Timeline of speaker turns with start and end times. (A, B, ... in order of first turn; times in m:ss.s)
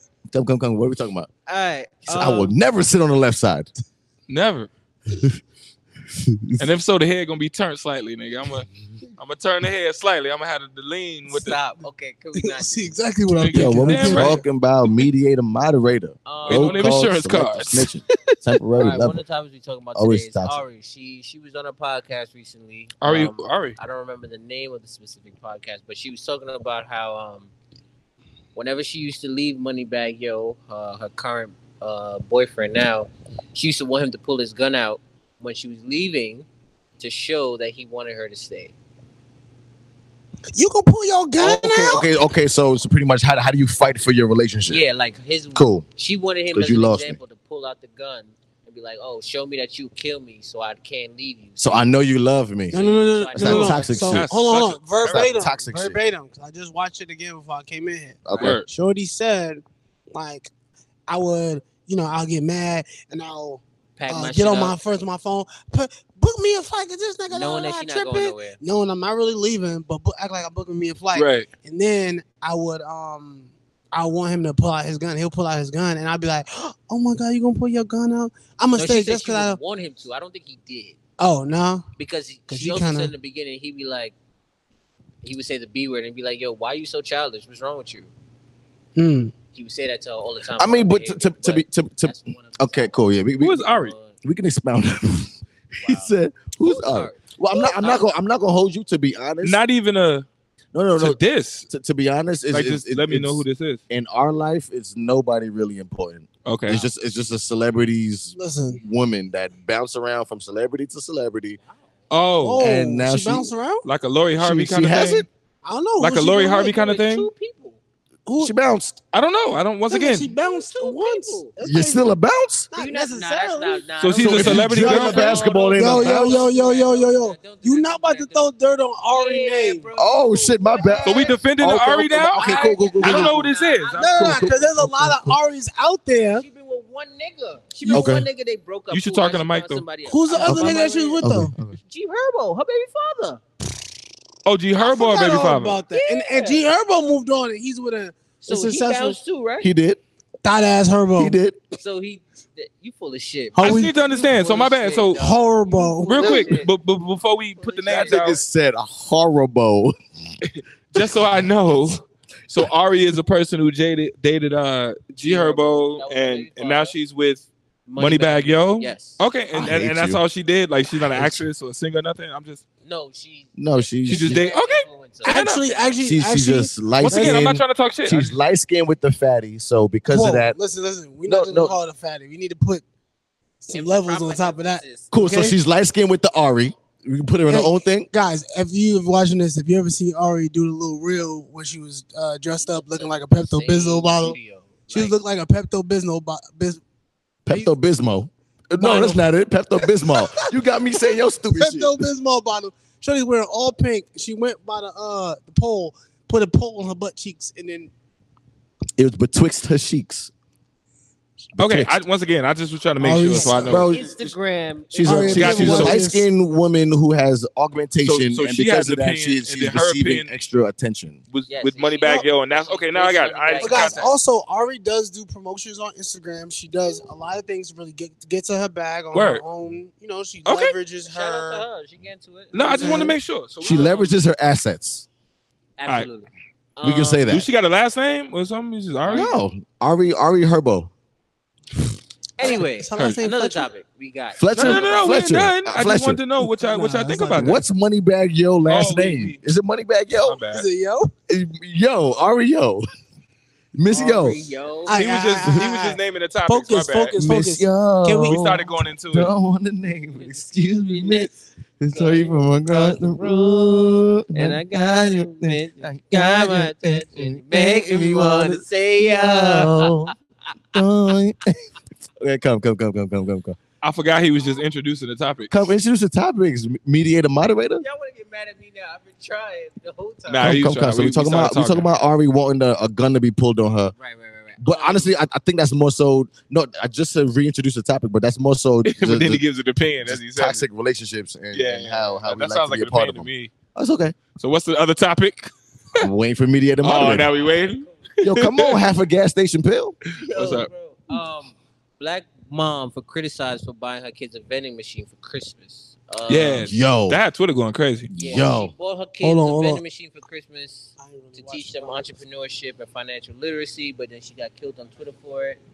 0:00.3-0:01.3 A
0:01.5-0:02.6 B
0:02.0-0:03.7 A
0:04.3-0:04.7 C
0:05.1-0:05.4 A
0:06.1-0:06.7 A
0:06.6-0:08.7 C
0:09.2-0:11.6 C
0:11.3-0:13.0 B
0:12.4-0:14.4 D
0:13.3-0:14.4 C
0:13.5-0:19.2 A
0:16.3-0:16.9 B
0:16.5-0:18.4 C
0:18.8-0:27.5 B
0:20.0-0:20.6 A
0:23.0-0:23.8 C
0:28.6-0:36.5 B
0:37.0-0:38.7 B
0:40.6-0:42.1 D
0:41.4-0:44.8 A
0:44.7-0:51.8 B
0:45.6-0:45.8 A
0:46.5-0:47.2 A
0:51.6-0:52.8 A
0:52.7-1:00.5 D
0:52.7-0:54.0 B
0:53.3-0:54.3 A
0:54.0-0:55.4 C
0:55.0-0:56.0 A
0:58.2-0:58.6 A
0:58.4-0:58.7 C
1:01.1-1:19.6 D
1:04.0-1:04.8 B
1:07.3-1:08.6 B
1:11.1-1:11.5 C
1:18.8-1:21.0 B
1:21.2-1:21.9 D
1:22.0-1:24.1 B
1:22.5-1:23.1 D
1:25.2-1:28.1 B
1:29.0-1:29.3 D
1:29.5-1:33.0 B
1:30.6-1:33.7 A
1:33.4-1:34.0 C
1:33.7-1:34.2 B
1:34.2-1:39.6 A
1:35.8-1:38.1 B
1:39.4-1:40.3 C
1:40.7-1:51.6 A
1:41.0-1:41.7 C
1:42.5-1:43.8 C
1:46.4-1:46.8 C
1:48.4-1:48.8 D
1:52.1-1:52.6 C
1:52.4-1:53.9 D
1:52.6-1:53.5 A
1:53.8-1:55.3 C
1:54.4-1:55.3 A
1:55.6-1:56.8 D
1:56.0-1:57.3 C
1:56.7-1:57.8 B
1:58.3-1:58.5 D
1:58.4-1:59.0 A
1:59.1-2:00.3 C
1:59.9-2:02.2 D
2:00.4-2:01.5 B
2:01.6-2:02.7 A
2:02.7-2:03.9 D
2:02.7-2:08.5 B
2:04.0-2:05.3 C
2:04.2-2:06.4 A
2:04.5-2:09.9 D
2:09.0-2:11.4 B
2:10.0-2:13.4 A
2:11.0-2:14.5 C
2:12.2-2:14.6 B
2:13.9-2:16.5 D
2:14.2-2:15.4 A
2:16.4-2:23.4 B
2:17.8-2:18.2 D
2:17.9-2:18.3 A
2:18.9-2:19.8 C
2:20.1-2:21.5 D
2:20.4-2:21.8 A
2:24.4-2:25.8 C
2:24.8-2:29.2 D
2:25.9-2:26.7 B
2:28.4-2:29.7 B
2:29.6-2:30.0 A
2:30.4-2:31.4 D
2:31.2-2:31.6 A
2:31.7-2:36.7 B
2:33.5-2:33.9 D
2:33.6-2:35.2 C
2:35.2-2:36.4 D
2:36.1-2:38.4 C
2:37.6-2:38.4 B
2:37.9-2:40.0 A
2:40.5-2:52.6 C
2:45.2-2:47.0 B
2:47.9-2:49.2 B
2:49.5-2:50.2 A
2:51.0-2:51.4 A
2:52.8-2:56.0 B
2:53.6-2:54.4 A
2:54.1-2:55.6 C
2:55.2-2:57.5 D
2:56.0-3:00.6 A
2:57.0-2:58.4 C
3:00.1-3:02.8 D
3:01.3-3:01.8 A
3:03.6-3:05.6 D
3:03.7-3:05.1 B
3:05.1-3:08.1 A
3:07.5-3:14.4 D
3:12.6-3:15.2 B
3:14.9-3:16.8 D
3:17.5-3:22.1 A
3:18.8-3:19.3 D
3:19.8-3:20.5 D
3:21.5-3:27.9 D
3:29.0-3:30.3 A
3:31.6-3:32.0 A
3:31.6-3:33.9 C
3:33.0-3:33.9 D
3:33.4-3:35.8 B
3:33.5-3:34.4 A
3:34.9-3:41.2 A
3:35.0-3:36.3 D
3:35.2-3:36.0 C
3:38.0-3:40.3 C
3:41.3-3:44.1 C
3:41.5-3:44.0 B
3:43.6-3:51.6 D
3:49.1-3:49.4 C
3:50.5-3:50.8 C
3:51.0-3:53.1 B
3:52.5-3:54.2 C
3:52.7-3:53.2 D
3:53.6-3:55.1 A
3:55.8-3:57.3 B
3:56.8-3:57.5 A
3:57.3-3:59.3 C
3:59.1-4:00.9 A
4:02.4-4:05.2 B
4:02.4-4:03.7 D
4:03.0-4:03.2 C
4:04.4-4:06.2 A
4:04.6-4:07.6 C
4:06.5-4:07.5 D
4:07.3-4:10.4 A
4:08.7-4:09.4 C
4:10.2-4:10.7 C
4:10.5-4:11.1 D
4:11.3-4:12.8 A
4:13.8-4:14.4 A
4:13.9-4:15.0 B
4:14.0-4:18.4 D
4:14.9-4:17.2 C
4:17.2-4:30.1 A
4:18.3-4:19.3 C
4:20.2-4:21.3 B
4:21.9-4:30.1 B
4:30.7-4:33.6 A
4:33.8-4:35.5 C
4:35.5-4:37.8 A
4:37.8-4:40.6 B
4:40.3-4:41.9 C
4:40.4-4:43.9 A
4:44.0-4:45.1 B
4:44.6-4:49.4 A
4:48.9-4:50.7 C
4:50.0-4:54.2 A
4:51.5-4:53.5 C
4:54.4-4:56.1 C
4:56.0-4:57.3 A
4:56.8-4:58.8 C
4:57.4-4:57.9 B
4:58.2-5:00.0 A
5:00.2-5:06.7 B
5:00.2-5:00.7 C
5:06.3-5:08.1 C
5:06.6-5:07.2 A
5:08.1-5:08.7 A
5:08.1-5:15.6 B
5:09.2-5:09.8 D
5:11.0-5:12.1 D